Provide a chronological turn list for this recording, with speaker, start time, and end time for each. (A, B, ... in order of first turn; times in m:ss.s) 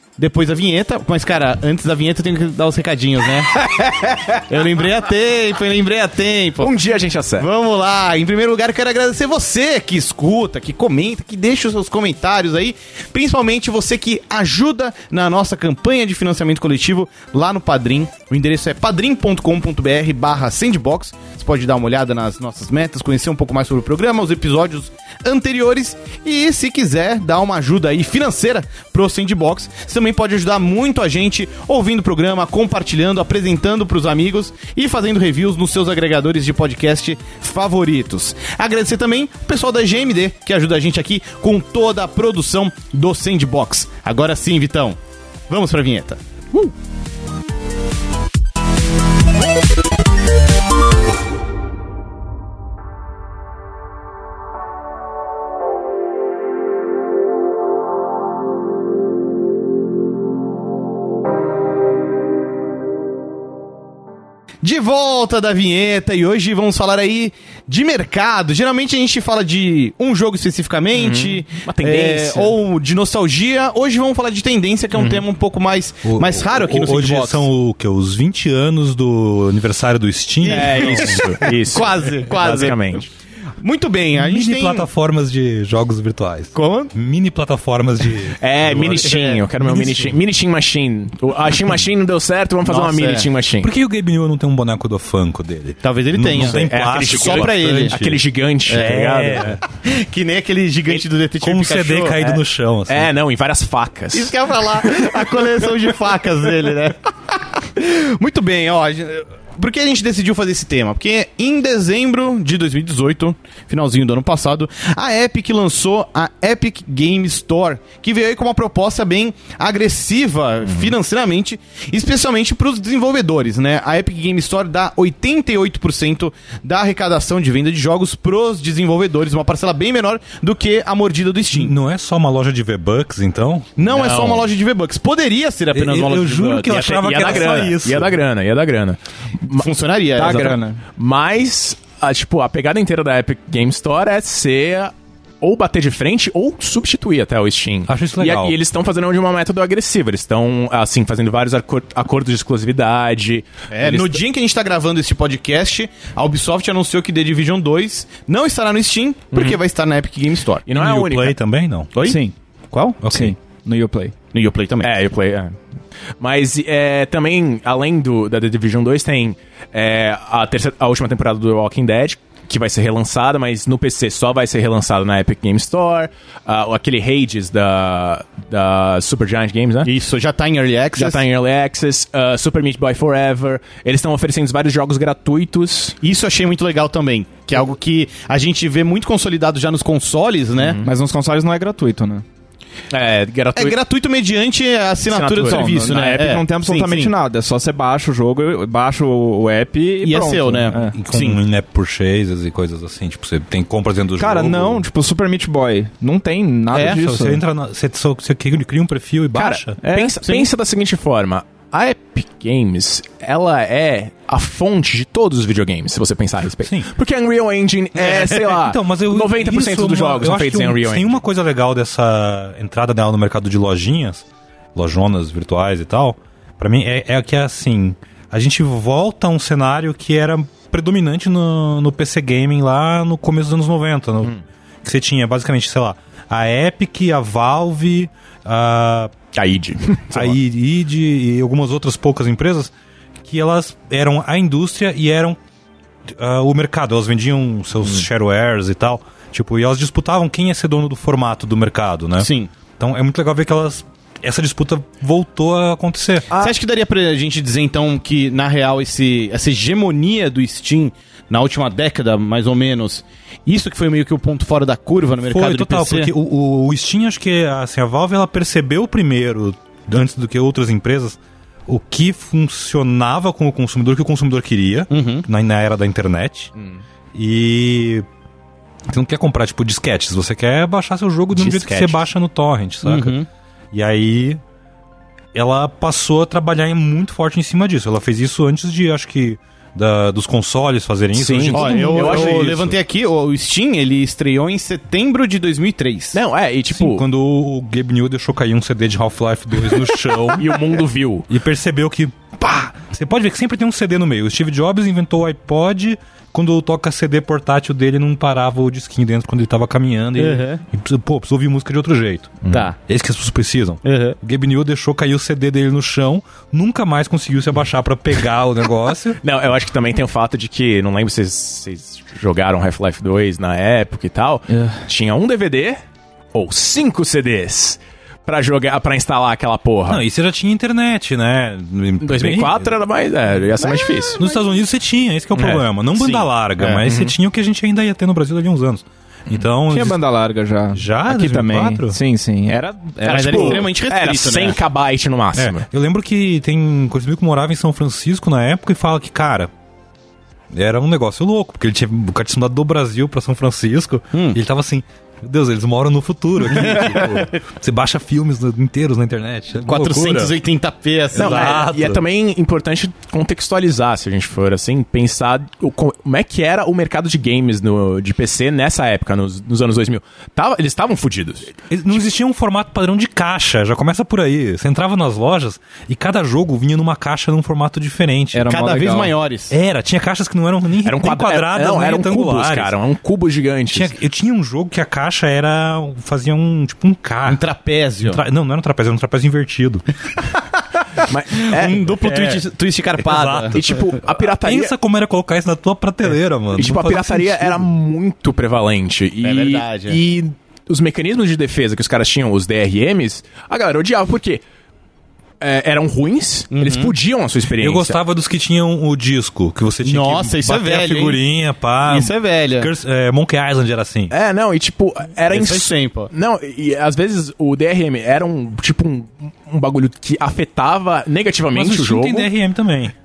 0:00.2-0:06.7 A
0:06.6-0:07.5 B
0:07.4-0:46.7 A
1:04.6-1:17.5 A
1:10.9-1:12.6 B
1:14.9-1:15.2 B
1:16.0-1:21.4 C
1:20.4-1:23.0 A
1:20.4-1:23.1 B
1:23.6-1:24.9 A
1:24.1-1:30.1 C
1:26.5-1:26.9 A
1:28.4-1:33.7 B
1:28.9-1:29.4 A
1:32.6-1:33.3 A
1:33.6-1:39.6 C
1:35.8-1:37.9 A
1:36.3-1:39.6 B
1:38.7-1:39.0 A
1:39.7-1:42.2 A
1:41.4-1:43.1 C
1:42.2-1:44.4 B
1:44.1-2:11.7 A
2:11.5-2:14.0 C
2:13.8-2:16.8 A
2:13.9-2:14.5 B
2:15.7-2:18.2 C
2:16.6-2:19.7 B
2:19.5-2:20.6 A
2:20.1-2:20.8 D
2:20.2-2:34.2 B
2:27.9-2:28.6 C
2:33.7-2:40.6 A
2:39.3-2:39.6 B
2:40.6-2:41.4 B
2:40.7-2:41.9 C
2:41.9-2:42.2 A
2:42.0-2:42.3 D
2:42.7-2:43.0 A
2:43.0-2:44.1 D
2:43.0-2:43.3 C
2:44.3-2:44.9 A
2:44.8-2:45.6 B
2:46.2-2:59.9 B
2:59.8-3:01.2 A
3:01.0-3:06.0 B
3:06.0-3:10.8 A
3:10.6-3:10.9 B
3:10.8-3:12.2 D
3:12.9-3:13.8 B
3:13.6-3:17.1 A
3:15.1-3:16.1 B
3:15.4-3:20.9 D
3:20.0-3:21.4 A
3:20.9-3:24.8 C
3:24.2-3:27.4 D
3:26.7-3:27.0 A
3:26.7-3:29.8 C
3:29.3-3:41.2 B
3:29.8-3:30.2 D
3:30.2-3:30.5 A
3:38.0-3:59.1 C
3:59.3-4:00.4 B
4:00.1-4:02.7 C
4:03.2-4:05.4 C
4:06.2-4:16.3 C
4:12.2-4:12.5 A
4:16.3-4:26.1 A
4:25.2-4:36.5 C
4:34.9-4:35.2 D
4:36.6-4:36.8 B
4:37.1-4:38.0 C
4:38.9-4:44.4 C
4:41.4-4:42.0 B
4:42.8-4:43.2 D
4:45.3-4:52.8 C
4:51.1-4:52.6 B
4:51.5-4:56.2 A
4:56.1-4:57.0 B
4:56.7-5:00.6 C
5:00.4-5:01.3 B
5:01.3-5:19.2 C
5:10.2-5:10.6 A
5:12.5-5:12.8 A
5:13.8-5:14.2 A
5:19.2-5:25.8 B
5:26.3-5:30.0 B
5:29.9-5:32.8 C
5:32.0-5:34.2 B
5:33.6-5:34.5 A
5:34.2-5:40.0 C
5:35.4-5:35.6 B
5:36.0-5:36.9 A
5:39.7-5:43.7 D
5:40.7-5:42.0 C
5:43.0-5:44.6 A
5:43.1-5:45.6 B
5:45.4-5:49.5 C
5:50.5-6:00.4 C
5:56.4-5:57.3 A
5:59.6-6:01.6 A
6:01.1-6:02.0 C
6:01.1-6:11.5 B
6:11.7-6:18.5 C
6:18.3-6:19.1 D
6:18.5-6:19.6 A
6:19.5-6:22.7 C
6:20.8-6:23.9 B
6:23.7-6:27.4 C
6:27.3-6:28.2 A
6:28.1-6:29.9 C
6:31.1-6:31.9 B
6:31.3-6:33.6 A
6:32.0-6:32.4 C
6:33.0-6:37.7 C
6:33.5-6:34.7 B
6:36.5-6:44.4 B
6:39.2-6:40.0 A
6:45.4-6:48.0 B
6:47.6-6:54.1 C
6:49.8-6:51.2 A
6:51.8-6:52.7 A
6:54.1-7:02.3 B
6:55.3-6:56.1 A
7:01.5-7:02.9 C